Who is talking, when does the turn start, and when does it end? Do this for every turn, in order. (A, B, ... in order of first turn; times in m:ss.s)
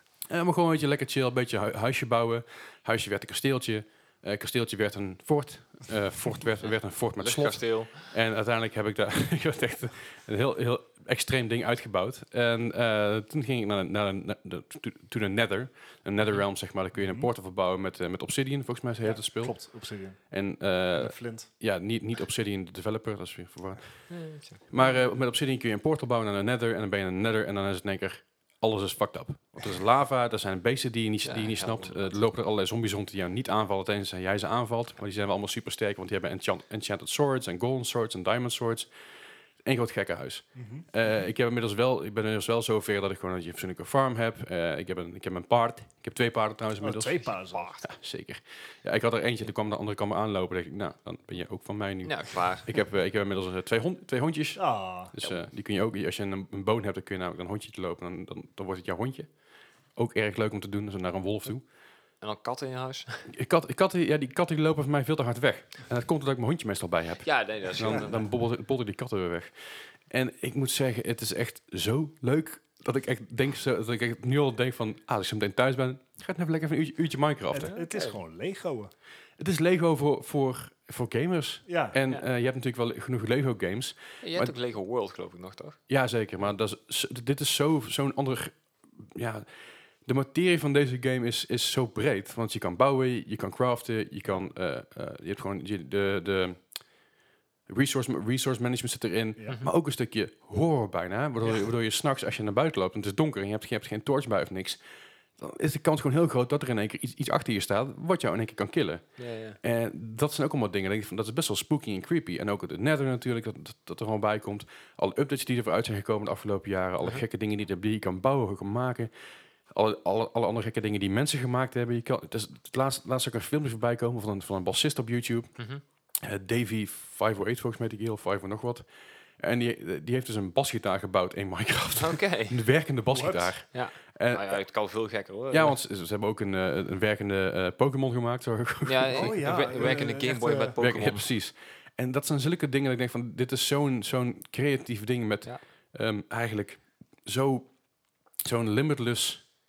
0:00.3-0:19.7 A
0:07.2-0:08.1 B
0:16.9-0:17.3 C
0:19.0-0:20.2 C
0:20.3-0:38.9 A
0:21.0-0:21.5 C
0:24.1-0:24.6 B
0:31.2-0:32.2 B
0:39.6-0:59.4 A
0:40.6-0:40.9 C
0:46.8-0:47.7 C
0:47.5-0:47.8 B
0:52.0-0:52.8 B
0:54.6-0:55.1 C
0:59.9-1:01.6 A
1:02.2-1:03.3 B
1:03.3-1:17.7 A
1:07.2-1:08.3 B
1:17.5-1:18.9 C
1:17.6-1:18.2 B
1:19.4-1:24.5 A
1:21.6-1:22.0 C
1:24.2-1:25.8 B
1:25.9-1:29.5 A
1:30.0-1:36.7 A
1:37.7-1:44.8 A
1:45.4-1:59.1 A
1:49.2-1:49.6 B
1:59.7-2:05.6 A
2:05.6-2:05.8 B
2:06.2-2:14.6 A
2:12.0-2:12.6 B
2:13.1-2:13.6 C
2:13.7-2:15.8 B
2:15.5-2:19.4 A
2:18.9-2:21.3 B
2:19.1-2:20.8 C
2:20.8-2:27.7 A
2:28.4-2:29.4 A